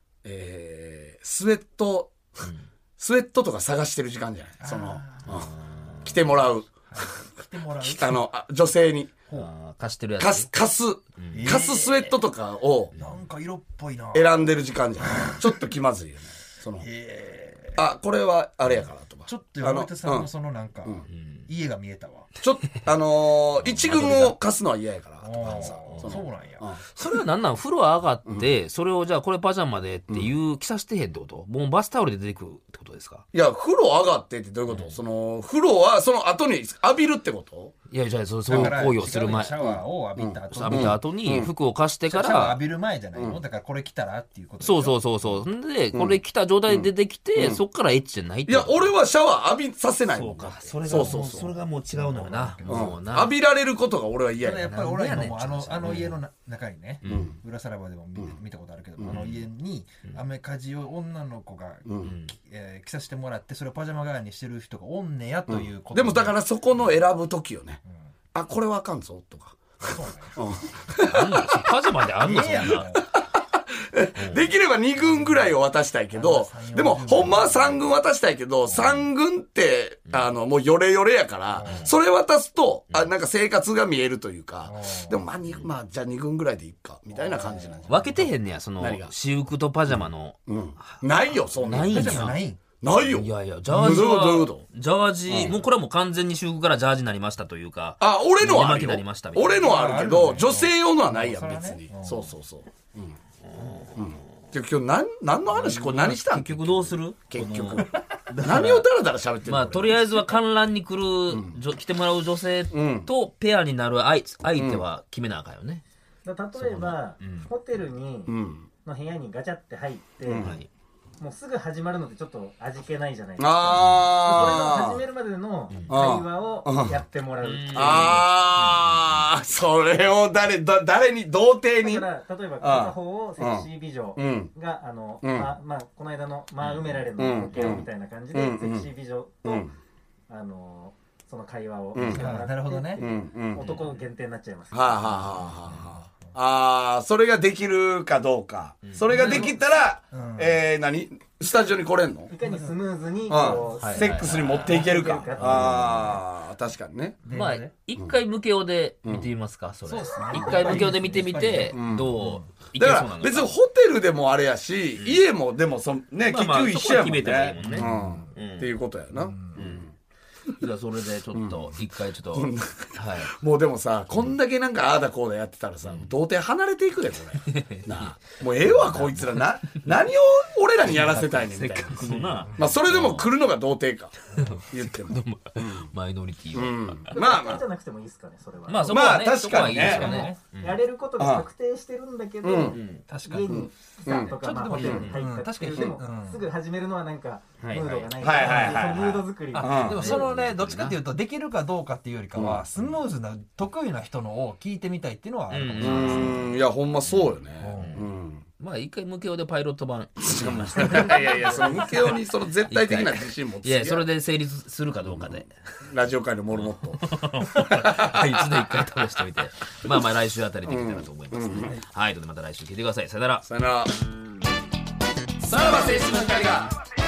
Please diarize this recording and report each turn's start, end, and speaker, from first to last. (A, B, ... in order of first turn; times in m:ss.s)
0:00.2-0:02.2 A
0:02.4-0:02.7 B
0:03.0-0:05.5 A
0:04.6-0:05.5 C
0:05.3-0:06.2 B
0:06.0-0:06.8 A
0:06.8-0:08.2 C
0:07.8-0:09.2 A
0:09.3-0:10.5 B
0:10.2-0:12.9 A
0:11.2-0:11.5 B
0:11.3-0:12.2 C
0:12.9-0:15.6 C
0:14.1-0:16.9 A
0:16.8-0:17.8 C
0:17.7-0:20.3 A
0:19.2-0:22.3 C
0:21.1-0:21.4 B
0:22.4-0:26.8 A
0:23.6-0:24.3 B
0:24.0-0:24.2 C
0:25.2-0:26.7 C
0:25.8-0:26.2 B
0:26.9-0:33.2 B
0:33.3-0:37.7 A
0:34.7-0:35.0 B
0:37.9-0:39.6 B
0:38.5-0:41.0 C
0:38.5-0:41.5 A
0:40.5-0:42.6 B
0:42.0-0:45.0 C
0:43.1-0:43.4 A
0:44.6-0:48.9 B
0:45.9-0:47.6 A
0:48.5-0:51.5 A
0:50.1-0:53.3 B
0:50.8-0:53.0 C
0:52.6-0:54.7 A
0:54.4-1:06.4 C
0:54.5-0:56.2 B
0:57.0-0:57.3 B
0:57.1-0:57.4 A
0:59.1-0:59.5 B
1:01.8-1:02.1 A
1:02.0-1:02.3 B
1:05.5-1:07.8 A
1:08.3-1:11.1 A
1:09.8-1:10.4 C
1:11.0-1:12.9 B
1:12.2-1:13.1 C
1:12.5-1:29.1 A
1:14.2-1:14.5 B
1:15.0-1:15.5 C
1:16.1-1:18.0 C
1:20.1-1:20.3 B
1:21.5-1:21.9 C
1:21.6-1:21.9 B
1:24.6-1:25.2 C
1:27.1-1:28.0 C
1:27.9-1:31.0 B
1:29.9-1:34.6 A
1:31.6-1:32.4 B
1:31.8-1:32.6 C
1:33.1-1:39.7 B
1:33.7-1:34.0 C
1:35.3-1:35.6 A
1:38.0-1:43.2 A
1:39.5-1:42.3 C
1:43.5-1:44.1 B
1:44.0-1:47.9 A
1:45.5-1:48.8 B
1:48.4-1:50.2 A
1:49.4-1:55.8 B
1:51.3-1:51.6 A
1:52.7-1:53.1 A
1:54.6-1:54.8 A
1:56.2-2:00.5 D
1:56.5-1:57.5 B
1:58.3-1:58.7 A
2:00.3-2:00.6 A
2:00.4-2:00.7 B
2:01.2-2:08.2 D
2:03.4-2:05.0 A
2:03.7-2:04.5 B
2:05.7-2:06.0 B
2:05.9-2:07.0 A
2:07.4-2:09.2 B
2:07.7-2:12.1 A
2:11.8-2:19.7 D
2:12.6-2:14.5 A
2:15.2-2:15.5 A
2:16.6-2:17.0 B
2:17.2-2:18.9 A
2:19.4-2:19.7 A
2:20.3-2:25.2 D
2:21.9-2:22.3 A
2:22.0-2:23.0 C
2:23.0-2:23.6 A
2:23.6-2:24.0 B
2:24.7-2:32.3 A
2:25.0-2:26.3 C
2:28.8-2:29.5 B
2:29.1-2:29.5 C
2:30.1-2:30.6 C
2:32.3-2:36.0 D
2:32.4-2:32.8 C
2:33.3-2:37.2 A
2:33.8-2:36.2 B
2:37.2-2:37.7 C
2:37.3-2:43.6 B
2:39.8-2:42.5 C
2:41.7-2:42.1 A
2:42.8-2:49.9 A
2:45.0-2:45.2 B
2:46.2-2:48.8 B
2:47.6-2:48.3 C
2:49.2-2:49.7 C
2:49.6-2:49.9 B
2:50.6-2:53.3 B
2:51.3-3:04.1 A
2:55.8-2:56.1 B
2:57.4-3:00.0 B
3:00.8-3:03.3 B
3:02.4-3:02.7 C
3:04.3-3:07.1 B
3:04.7-3:05.9 A
3:06.5-3:07.6 A
3:07.1-3:09.0 D
3:08.6-3:10.8 B
3:08.9-3:10.2 A
3:09.2-3:10.4 C
3:10.0-3:20.3 D
3:11.2-3:11.5 A
3:12.4-3:12.8 A
3:12.7-3:13.0 B
3:13.1-3:16.4 C
3:13.4-3:15.1 A
3:17.6-3:19.2 B
3:18.2-3:20.0 A
3:18.2-3:18.9 C
3:19.5-3:26.5 C
3:19.7-3:21.0 B
3:22.3-3:22.6 A
3:25.5-3:26.5 B
3:25.8-3:28.4 A
3:27.0-3:28.0 B
3:27.6-3:28.0 C
3:28.6-3:35.5 B
3:30.3-3:34.1 A
3:35.0-3:37.0 A
3:36.5-3:43.5 B
3:38.0-3:38.4 A
3:40.6-3:41.8 A
3:43.4-3:43.9 A
3:45.4-3:46.7 A